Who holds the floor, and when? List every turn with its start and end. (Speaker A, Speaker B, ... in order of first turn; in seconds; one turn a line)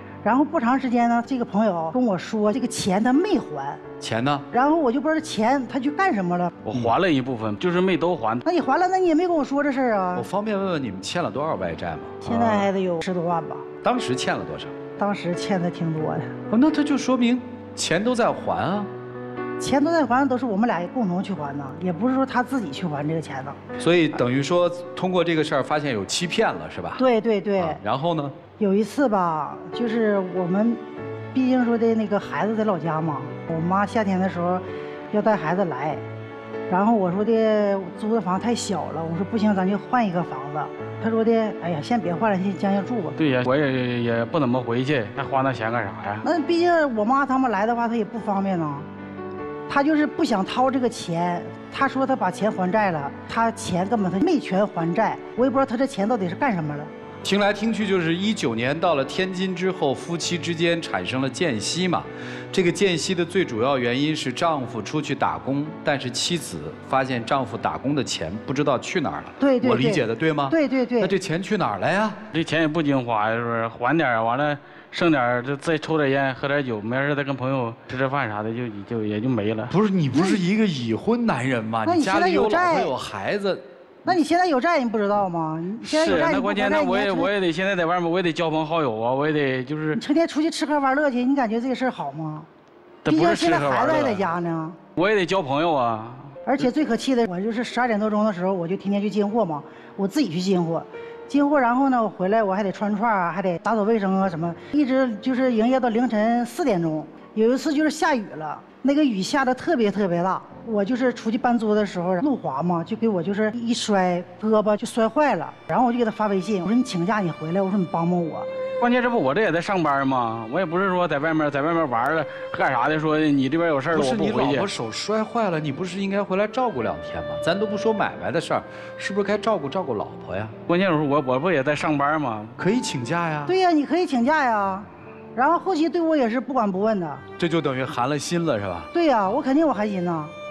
Speaker A: 0.2-3.8
Speaker B: 4.0-4.5
Speaker A: 4.5-6.5
Speaker C: 6.6-8.4
Speaker A: 8.4-10.2
Speaker B: 10.2-12.7
Speaker A: 12.2-13.7
Speaker B: 13.8-14.7
Speaker A: 15.0-16.3
Speaker B: 16.5-18.9
Speaker A: 19.6-23.6
Speaker B: 23.8-27.0
Speaker A: 27.0-27.8
Speaker B: 27.6-28.4
Speaker A: 28.6-30.8
Speaker A: 31.3-36.0
Speaker A: 36.7-43.2
Speaker C: 43.2-46.2
Speaker A: 46.2-48.9
Speaker A: 49.7-56.9
Speaker B: 57.2-72.2
Speaker A: 69.4-71.1
Speaker C: 72.3-79.7
Speaker B: 79.7-83.6
Speaker A: 80.1-80.4
Speaker A: 81.8-82.9
Speaker A: 84.0-87.3
Speaker C: 85.8-90.0
Speaker A: 89.9-92.5
Speaker C: 93.0-94.3
Speaker A: 93.1-94.8
Speaker C: 95.0-96.3
Speaker A: 96.5-118.5
Speaker C: 118.8-124.7
Speaker B: 123.9-130.6
Speaker C: 130.7-132.6
Speaker B: 132.6-133.5
Speaker A: 133.4-137.2
Speaker B: 137.4-138.9
Speaker A: 138.9-140.3